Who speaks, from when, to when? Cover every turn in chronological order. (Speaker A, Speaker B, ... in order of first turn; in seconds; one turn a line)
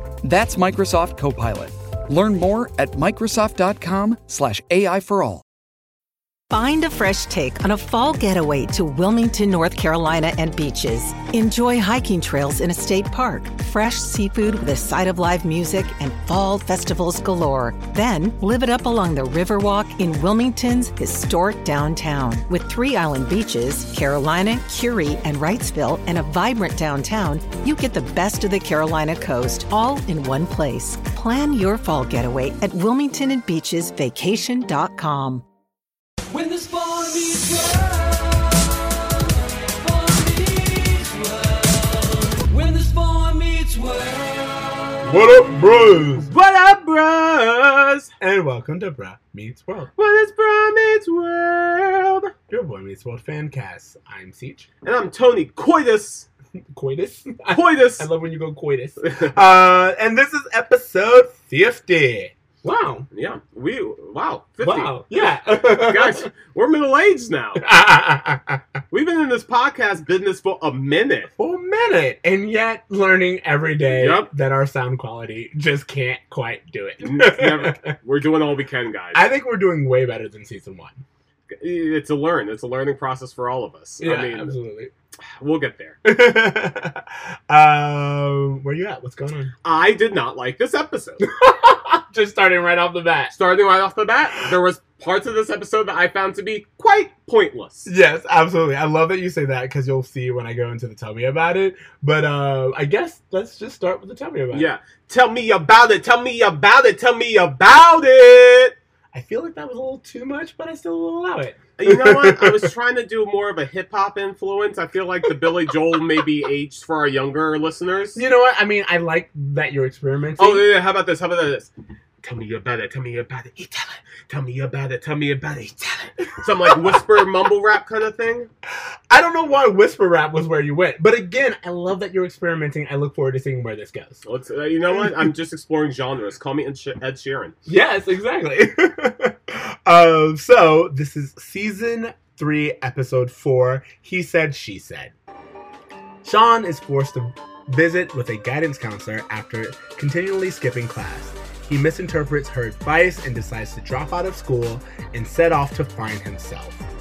Speaker A: 0.2-5.4
Speaker B: 6.5-35.5
Speaker C: 36.3-45.1
Speaker D: 45.0-46.3
Speaker E: 46.2-48.1
Speaker D: 48.2-49.9
Speaker E: 50.0-52.3
Speaker D: 52.5-54.7
Speaker E: 54.8-56.3
Speaker D: 56.7-63.1
Speaker E: 57.5-58.1
Speaker E: 59.0-59.3
Speaker E: 63.1-65.0
Speaker D: 64.6-66.3
Speaker E: 65.7-67.6
Speaker D: 67.6-68.6
Speaker E: 68.9-71.3
Speaker D: 71.4-77.9
Speaker E: 73.9-74.3
Speaker E: 77.0-79.2
Speaker D: 79.1-81.0
Speaker E: 81.5-84.5
Speaker D: 84.0-84.9
Speaker E: 85.4-86.0
Speaker D: 86.0-89.5
Speaker E: 89.7-91.3
Speaker D: 91.2-93.3
Speaker E: 93.3-97.9
Speaker D: 97.9-104.7
Speaker E: 104.5-108.8
Speaker D: 109.1-112.7
Speaker E: 111.8-118.2
Speaker D: 118.2-120.7
Speaker E: 120.4-121.7
Speaker E: 122.2-128.5
Speaker D: 126.2-127.1
Speaker D: 129.1-134.2
Speaker E: 134.2-137.6
Speaker D: 134.9-135.3
Speaker D: 137.7-145.1
Speaker D: 146.2-156.9